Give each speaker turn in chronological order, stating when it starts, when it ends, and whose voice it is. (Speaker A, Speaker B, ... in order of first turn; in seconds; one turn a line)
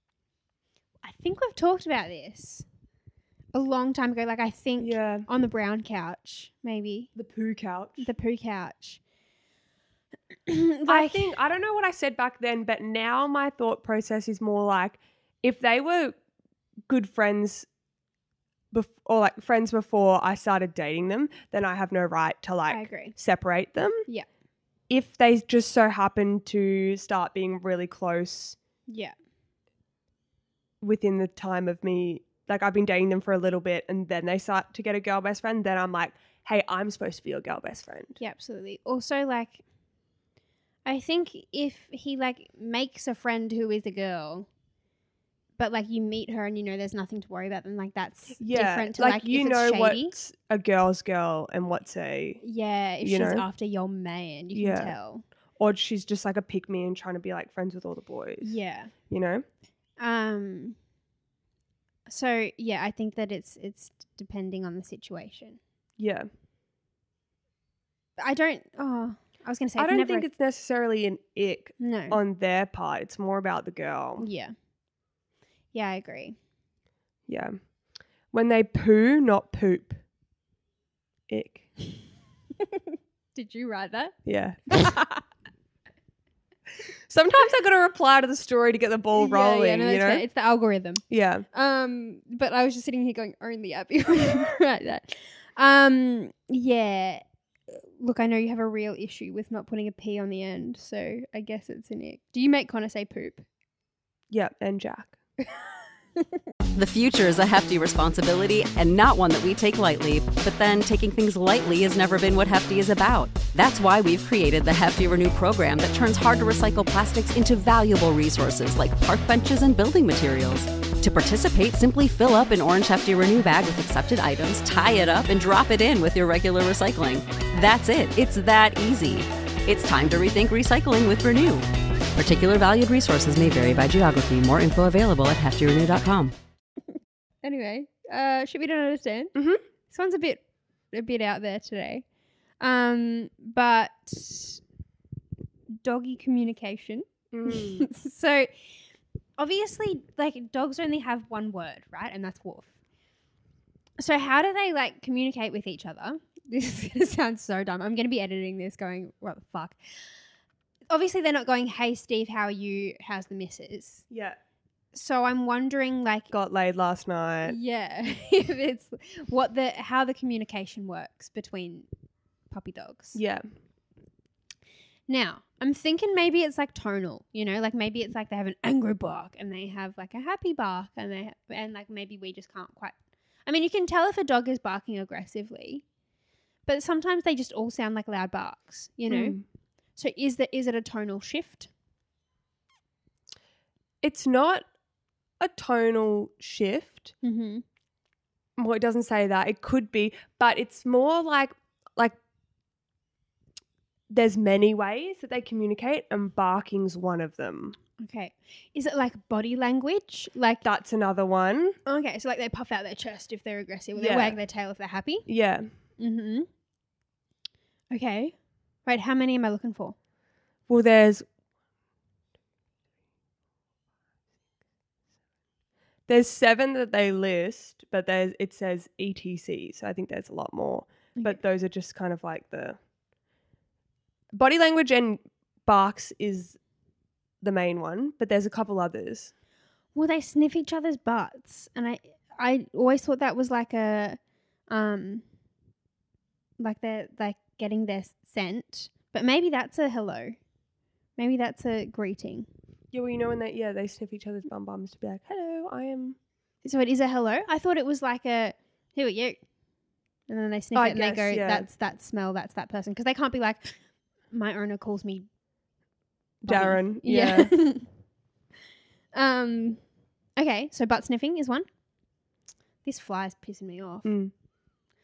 Speaker A: 1.0-2.7
Speaker A: 3.5-7.1
Speaker B: 4.8-5.3
Speaker B: 7.2-8.1
Speaker A: 8.0-9.0
Speaker A: 10.5-11.4
Speaker B: 10.9-16.2
Speaker B: 16.9-17.7
Speaker B: 18.7-24.1
Speaker A: 22.7-23.2
Speaker B: 24.9-28.6
Speaker A: 28.9-29.1
Speaker B: 30.8-38.2
Speaker A: 38.2-39.6
Speaker A: 40.9-44.5
Speaker A: 45.6-50.1
Speaker B: 48.4-52.4
Speaker A: 52.4-55.2
Speaker B: 53.0-53.5
Speaker B: 54.5-55.0
Speaker B: 55.6-58.6
Speaker A: 58.4-58.9
Speaker B: 59.1-59.5
Speaker A: 60.0-60.8
Speaker A: 62.1-65.6
Speaker B: 66.0-66.3
Speaker A: 68.2-70.3
Speaker B: 69.8-74.3
Speaker A: 71.8-72.2
Speaker A: 74.2-74.5
Speaker A: 75.7-76.4
Speaker B: 77.3-77.6
Speaker B: 78.3-80.0
Speaker B: 81.3-81.7
Speaker A: 83.3-84.2
Speaker B: 84.3-85.0
Speaker A: 84.7-85.2
Speaker B: 87.1-90.2
Speaker A: 89.2-103.5
Speaker B: 91.1-91.5
Speaker B: 104.3-105.2
Speaker C: 106.8-136.3
Speaker A: 137.4-139.3
Speaker B: 139.3-139.6
Speaker A: 139.9-142.0
Speaker A: 142.6-144.6
Speaker A: 145.8-148.5
Speaker B: 147.3-147.9
Speaker A: 149.4-152.7
Speaker A: 154.0-160.0
Speaker A: 160.9-164.1
Speaker B: 164.1-164.4
Speaker A: 164.9-166.3
Speaker B: 166.3-167.6
Speaker A: 167.4-171.9
Speaker A: 172.5-173.2
Speaker B: 173.1-173.4
Speaker A: 175.1-182.9
Speaker A: 183.5-185.8
Speaker A: 186.7-189.4
Speaker B: 189.1-189.4
Speaker A: 190.0-191.7
Speaker B: 194.0-194.7
Speaker B: 195.4-197.1
Speaker A: 197.2-197.6
Speaker B: 198.6-202.2
Speaker B: 204.1-207.8
Speaker A: 208.0-210.7
Speaker B: 210.6-211.8
Speaker A: 211.9-215.3
Speaker B: 214.0-214.4
Speaker B: 215.3-215.7
Speaker A: 216.0-216.5
Speaker A: 217.9-218.3
Speaker A: 218.9-220.0
Speaker B: 220.7-221.3
Speaker B: 226.1-232.8
Speaker B: 234.3-236.6
Speaker B: 237.4-239.3
Speaker A: 239.9-244.2
Speaker A: 244.7-245.2
Speaker A: 246.6-250.4
Speaker A: 251.2-252.5
Speaker B: 252.9-256.2
Speaker A: 256.6-259.4
Speaker A: 260.3-263.8
Speaker B: 260.8-261.7
Speaker A: 264.3-265.3
Speaker B: 266.4-267.5
Speaker A: 266.5-267.9
Speaker A: 269.1-269.8
Speaker A: 270.4-271.7
Speaker A: 272.8-274.1
Speaker B: 274.1-274.3